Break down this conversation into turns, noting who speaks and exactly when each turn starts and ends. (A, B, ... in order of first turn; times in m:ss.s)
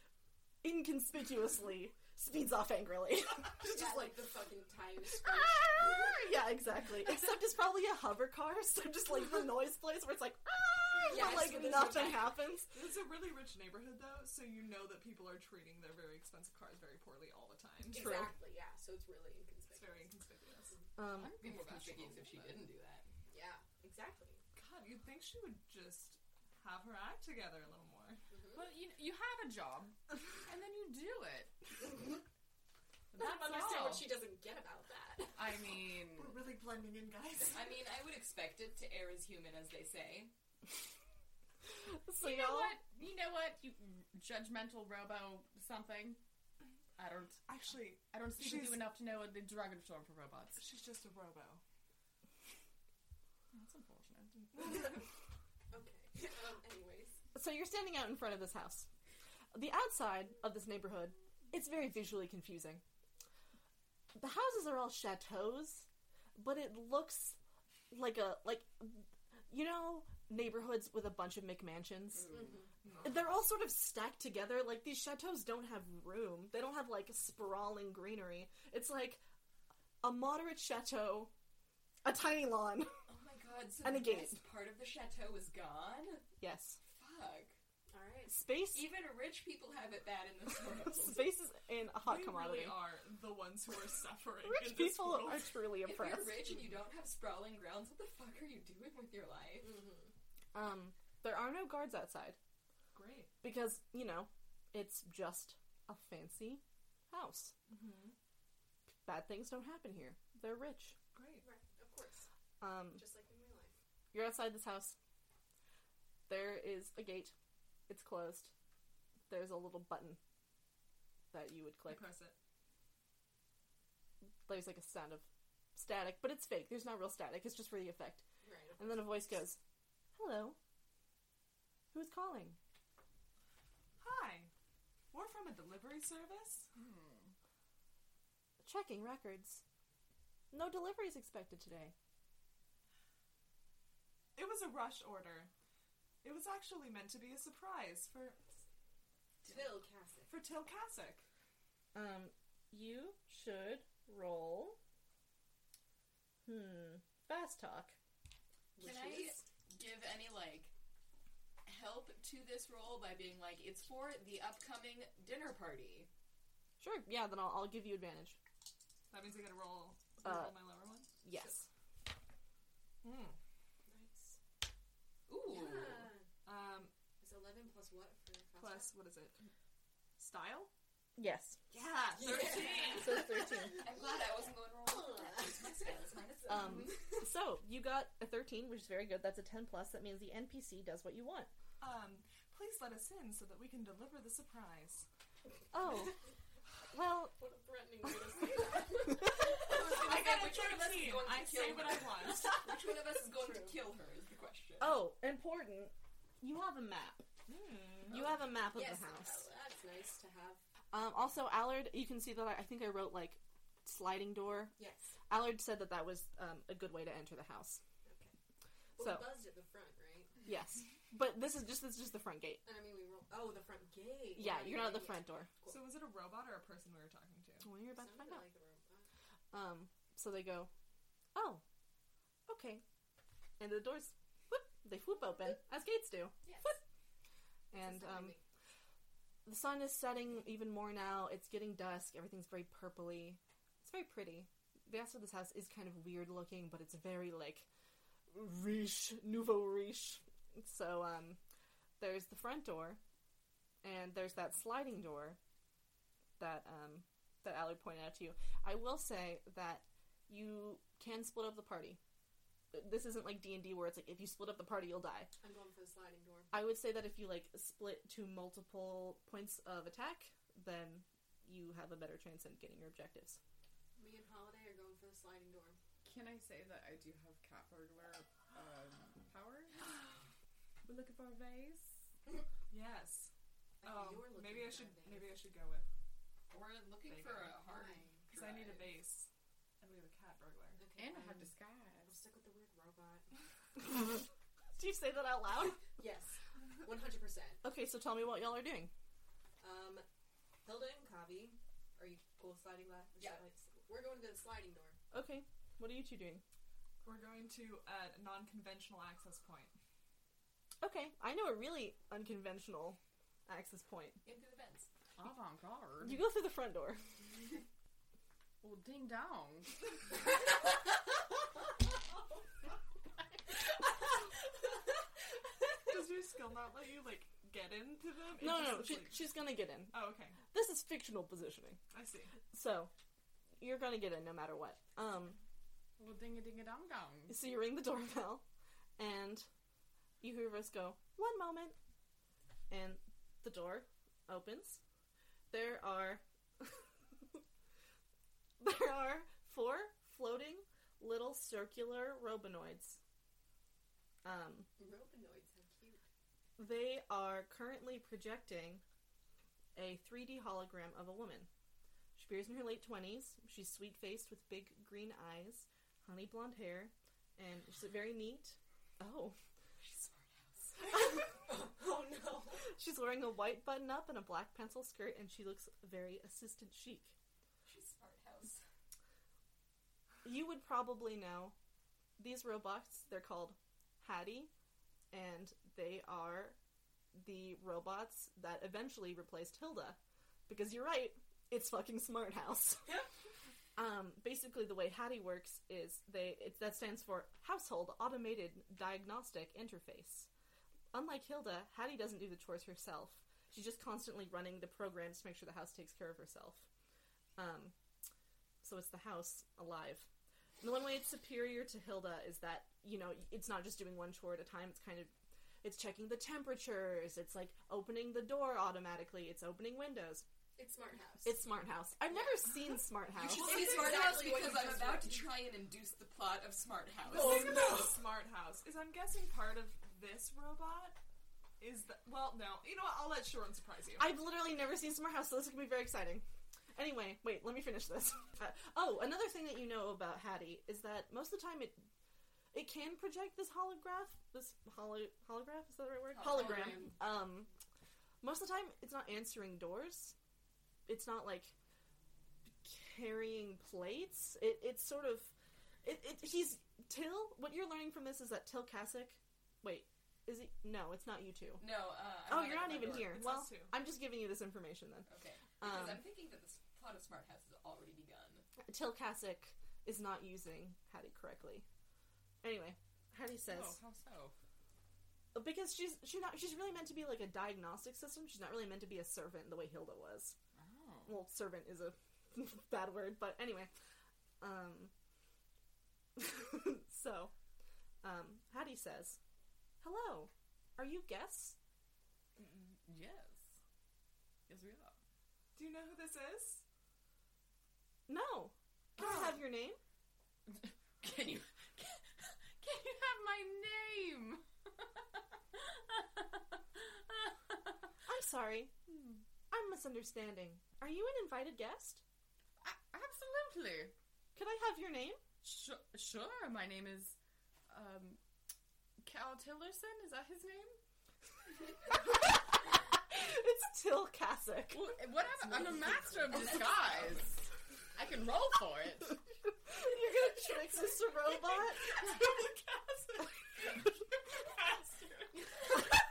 0:00.6-0:04.2 A
0:03.6-0:06.2 B
0:05.1-0:12.7 A
0:11.0-0:12.4 B
0:12.7-0:18.2 C
0:17.9-0:20.1 B
0:17.9-0:18.3 A
0:19.7-0:20.8 C
0:21.0-0:21.4 A
0:21.1-0:22.7 D
0:21.4-0:23.1 E
0:23.3-0:24.4 B
0:24.5-0:28.2 C
0:28.3-0:28.7 B
0:28.5-0:32.0 D
0:33.1-0:34.1 D
0:33.1-0:35.7 B
0:35.3-0:36.4 D
0:36.1-0:37.6 C
0:37.5-0:40.3 E
0:41.9-0:42.8 A
0:42.2-0:46.2 D
0:47.0-0:47.4 D
0:47.4-0:48.9 C
0:48.0-0:50.7 D
0:50.6-0:51.6 C
0:53.5-0:54.4 D
0:55.7-0:57.2 B
0:57.3-0:58.9 A
0:59.5-1:02.8 A
1:04.1-1:07.4 A
1:07.9-1:12.4 A
1:12.3-1:12.7 B
1:13.0-1:19.2 A
1:20.0-1:21.3 A
1:22.0-1:22.9 A
1:23.1-1:26.2 E
1:23.8-1:24.4 A
1:26.4-1:26.8 A
1:26.9-1:27.6 E
1:27.9-1:28.3 B
1:28.3-1:28.9 A
1:28.7-1:31.3 E
1:30.8-1:32.9 A
1:32.0-1:35.5 C
1:34.4-1:36.5 A
1:35.8-1:39.8 E
1:39.6-1:40.1 B
1:40.5-1:42.4 A
1:42.9-1:43.3 C
1:43.4-1:47.5 A
1:47.7-1:48.1 C
1:49.0-1:51.0 A
1:51.1-1:51.4 C
1:51.4-1:52.3 B
1:52.6-1:53.0 A
1:52.9-1:53.7 B
1:54.1-1:55.0 A
1:56.3-1:57.3 A
1:57.9-1:58.5 A
1:59.3-2:00.2 A
2:01.3-2:02.1 A
2:01.8-2:02.3 C
2:04.4-2:08.2 A
2:08.4-2:09.0 B
2:08.8-2:09.6 A
2:10.1-2:10.6 A
2:11.9-2:12.6 A
2:14.0-2:14.5 C
2:15.1-2:16.7 C
2:16.8-2:17.3 D
2:18.6-2:19.6 A
2:20.5-2:21.9 A
2:24.4-2:25.5 C
2:26.2-2:28.5 C
2:29.4-2:30.3 B
2:30.3-2:31.2 C
2:31.9-2:34.8 A
2:36.4-2:38.0 A
2:38.8-2:39.4 B
2:38.8-2:40.7 E
2:41.6-2:46.1 E
2:46.8-2:48.4 A
2:49.1-2:51.5 C
2:50.2-2:50.6 A
2:51.2-2:51.7 A
2:53.0-2:53.4 C
2:53.8-2:54.4 B
2:55.3-2:56.1 E
2:55.4-2:56.2 B
2:56.4-2:56.9 C
2:57.2-2:58.9 B
2:58.6-2:59.5 C
3:00.2-3:00.7 C
3:01.2-3:01.6 A
3:01.7-3:03.3 C
3:02.1-3:04.3 B
3:02.9-3:03.8 A
3:03.7-3:07.0 E
3:04.8-3:05.9 B
3:06.5-3:11.5 A
3:06.5-3:07.2 B
3:11.8-3:15.0 C
3:15.7-3:16.2 A
3:16.9-3:17.3 A
3:17.4-3:20.1 B
3:19.6-3:25.0 E
3:19.6-3:22.6 C
3:22.2-3:23.8 B
3:24.8-3:27.2 A
3:27.5-3:28.2 C
3:28.1-3:29.4 A
3:28.7-3:30.6 B
3:30.9-3:34.8 A
3:34.8-3:35.2 B
3:35.3-3:37.8 A
3:38.0-3:38.3 B
3:39.0-3:40.4 B
3:39.0-3:39.3 A
3:40.4-3:42.6 A
3:42.6-3:45.9 B
3:44.3-3:45.5 A
3:45.6-3:47.7 C
3:47.6-3:48.4 A
3:47.9-3:49.1 B
3:49.5-3:50.7 A
3:51.3-3:51.6 A
3:52.5-3:52.8 A
3:53.6-3:56.8 A
3:56.4-3:56.7 B
3:57.7-3:58.3 A
3:57.8-3:58.4 B
3:59.4-4:07.7 A
4:08.3-4:11.4 A
4:12.0-4:13.0 A
4:13.8-4:15.4 A
4:16.4-4:22.0 A
4:22.7-4:25.3 A
4:25.4-4:26.5 B
4:26.5-4:33.4 A
4:34.0-4:35.8 B
4:36.0-4:40.0 D
4:40.8-4:41.9 D
4:42.7-4:43.3 C
4:43.8-4:45.4 B
4:43.8-4:45.9 C
4:46.5-4:49.0 E
4:47.1-4:47.6 C
4:47.7-4:48.1 B
4:48.2-4:49.3 C
4:49.8-4:50.8 C
4:50.8-4:51.5 B
4:51.0-4:52.2 D
4:52.0-4:53.3 B
4:54.8-4:55.8 A
4:55.8-4:57.6 B
4:57.6-4:58.9 A
4:59.6-5:00.0 B
5:00.6-5:05.0 B
5:05.1-5:06.4 A
5:07.0-5:09.7 C
5:10.8-5:14.2 A
5:14.2-5:14.9 E
5:15.2-5:16.2 D
5:16.0-5:17.1 A
5:18.6-5:19.8 D
5:25.8-5:29.2 C
5:28.4-5:31.8 A
5:29.9-5:30.4 C
5:31.9-5:32.4 C
5:32.5-5:32.9 A
5:33.6-5:35.4 A
5:36.0-5:37.4 D
5:37.3-5:38.4 A
5:39.0-5:39.5 A
5:40.2-5:41.8 A
5:42.7-5:44.8 A
5:45.5-5:46.7 A
5:48.6-5:53.0 A
5:54.2-5:54.7 A
5:54.8-5:56.0 B
5:56.6-5:58.8 A
5:59.7-6:01.5 A
6:02.2-6:09.4 A
6:09.8-6:10.8 E
6:11.3-6:12.6 B
6:12.6-6:17.1 A
6:17.6-6:18.6 E
6:20.2-6:21.5 A
6:22.2-6:24.5 A
6:25.1-6:26.6 A
6:27.1-6:33.0 A
6:33.8-6:40.3 A
6:40.9-6:46.7 A
6:47.4-6:47.7 A
6:48.6-6:50.1 A
6:50.6-6:55.1 A
6:55.6-7:00.2 A
7:00.6-7:01.4 B
7:01.2-7:03.7 A
7:03.2-7:07.7 E
7:03.3-7:05.3 B
7:07.1-7:08.0 B
7:07.1-7:11.0 C
7:11.6-7:14.1 C
7:14.0-7:21.9 A
7:22.5-7:27.5 A
7:26.1-7:26.9 E
7:26.3-7:26.9 B
7:28.2-7:30.1 A
7:30.8-7:31.5 A
7:32.6-7:45.1 A
7:41.6-7:43.3 E
7:42.9-7:43.7 C
7:45.1-7:48.4 E
7:45.6-7:46.0 A
7:48.6-7:51.6 A
7:52.4-7:53.8 A
7:53.5-7:54.3 D
7:55.3-8:00.4 A
8:00.5-8:01.2 D
8:01.0-8:03.7 A
8:04.4-8:04.9 A
8:06.2-8:07.3 A
8:08.0-8:09.2 A
8:09.8-8:11.6 A
8:12.4-8:13.5 D
8:14.5-8:14.9 D
8:15.6-8:16.6 C
8:18.1-8:19.8 A
8:19.0-8:19.3 D
8:20.5-8:24.4 D
8:25.6-8:26.2 D
8:26.8-8:27.6 D
8:28.0-8:28.7 A
8:28.9-8:29.2 D
8:29.5-8:32.0 A
8:32.6-8:33.9 D
8:34.3-8:35.2 A
8:35.4-8:37.2 D
8:37.7-8:38.2 D
8:39.0-8:40.8 D
8:43.0-8:45.0 A
8:44.7-8:47.4 D
8:45.9-8:46.4 B
8:47.9-8:49.2 D
8:49.6-8:51.9 A
8:51.9-8:53.1 C
8:52.0-8:55.7 D